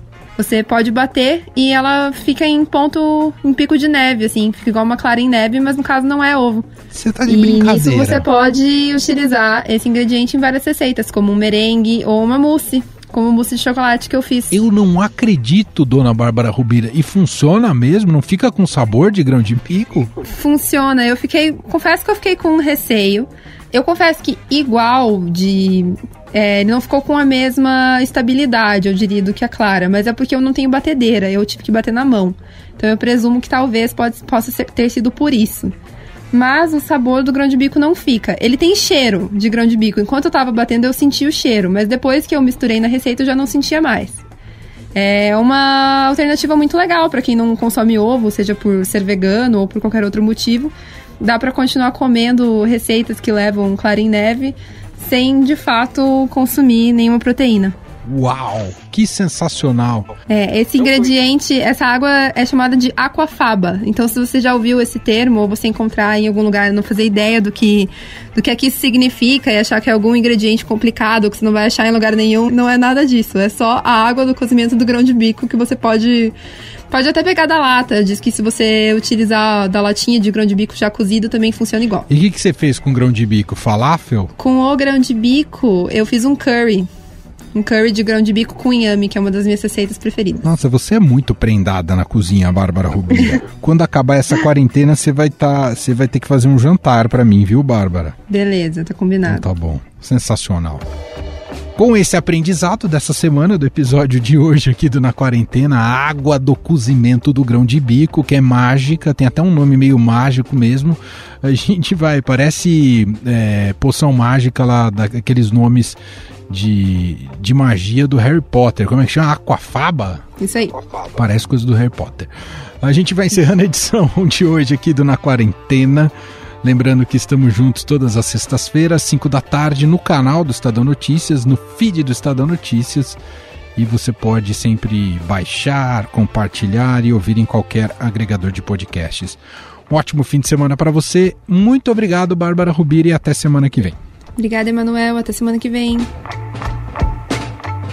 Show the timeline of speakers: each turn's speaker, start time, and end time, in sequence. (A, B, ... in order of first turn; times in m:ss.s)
0:00.4-0:06.7 A
0:06.9-0:08.2 B
0:07.2-0:14.6 A
0:14.5-0:20.2 B
0:20.2-0:35.7 A
0:36.3-0:44.2 A
0:44.9-0:57.8 A
0:58.0-1:00.1 B
1:00.3-1:16.3 A
1:16.9-1:22.1 A
1:22.1-1:24.3 B
1:24.4-1:26.9 A
1:27.5-1:30.5 A
1:30.4-1:38.2 B
1:38.3-1:39.4 A
1:39.2-1:40.9 B
1:41.8-1:56.0 B
1:56.5-2:00.2 B
2:00.4-2:00.8 A
2:00.8-2:06.1 B
2:06.6-2:13.2 B
2:13.8-2:24.0 B
2:24.4-2:26.1 A